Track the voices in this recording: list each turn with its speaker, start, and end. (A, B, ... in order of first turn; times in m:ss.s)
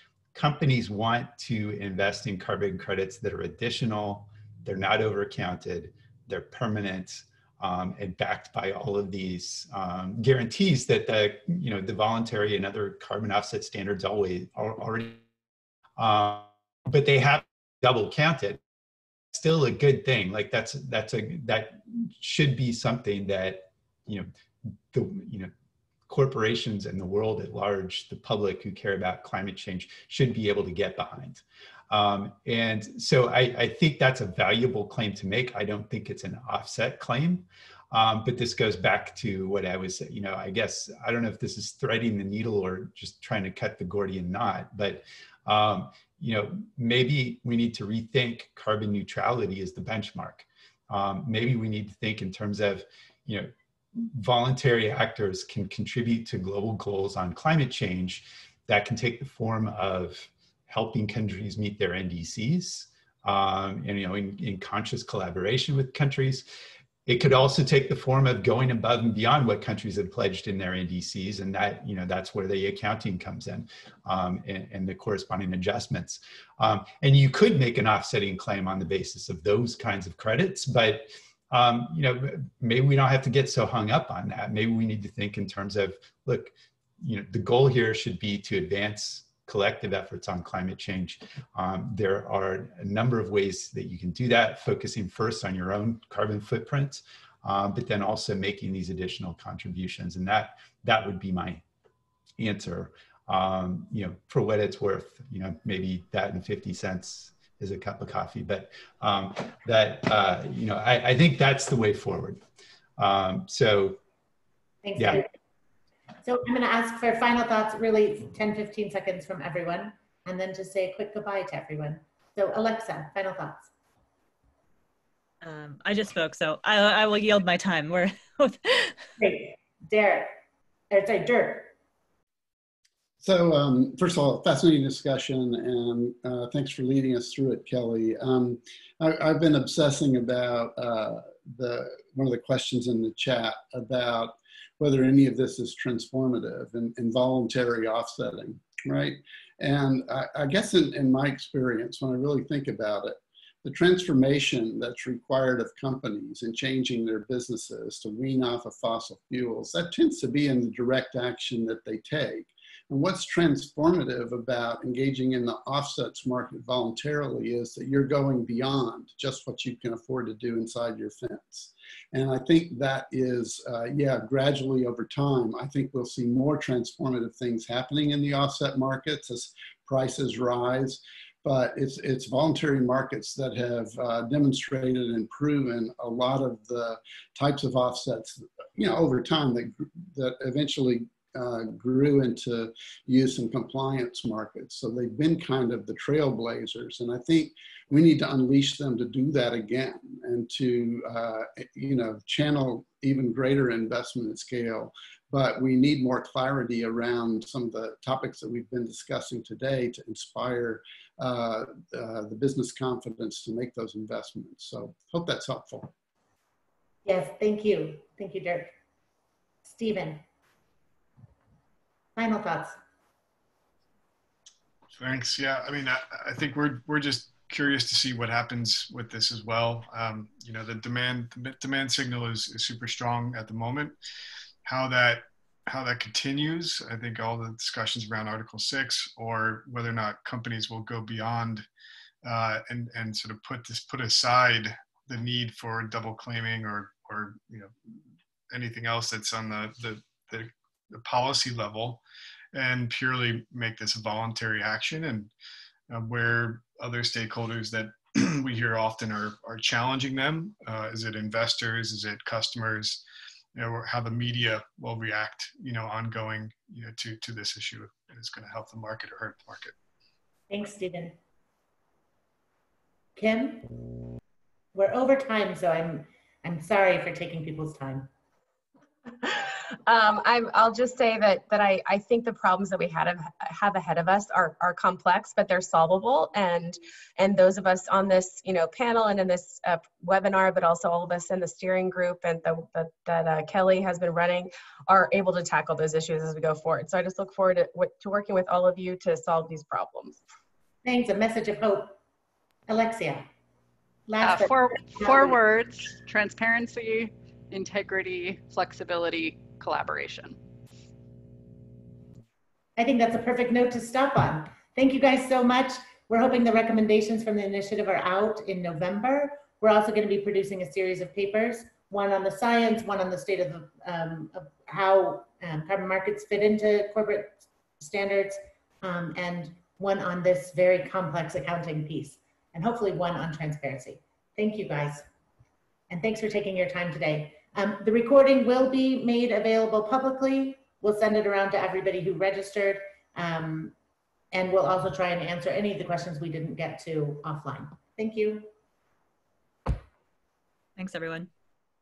0:00.3-0:15.2 A
0:16.0-0:18.6 A
0:19.3-0:24.3 A
0:24.9-0:25.5 A
0:26.1-1:06.5 A
1:07.0-1:41.6 A
1:42.4-1:52.4 A
1:53.0-1:54.0 A
1:54.8-1:55.3 B
1:56.2-2:03.7 B
2:05.4-2:09.0 C
2:09.2-2:10.4 B
2:10.9-2:11.7 B
2:13.2-3:35.9 D
3:37.0-3:38.7 B
3:39.6-3:40.2 B
3:42.2-3:42.8 B
3:45.0-3:54.0 E
3:54.6-4:01.7 E
4:02.2-4:07.7 E
4:08.5-4:15.3 E
4:15.9-4:23.0 E
4:23.5-4:29.7 E
4:30.5-4:31.2 B
4:33.2-4:33.8 B
4:34.7-4:38.1 B
4:39.2-5:00.2 F
5:00.8-5:02.0 B
5:02.7-5:03.3 B
5:04.1-5:05.4 B
5:04.2-5:10.4 G
5:12.8-5:35.0 B
5:35.9-5:43.7 B
5:44.3-5:48.5 B
5:50.8-5:51.3 C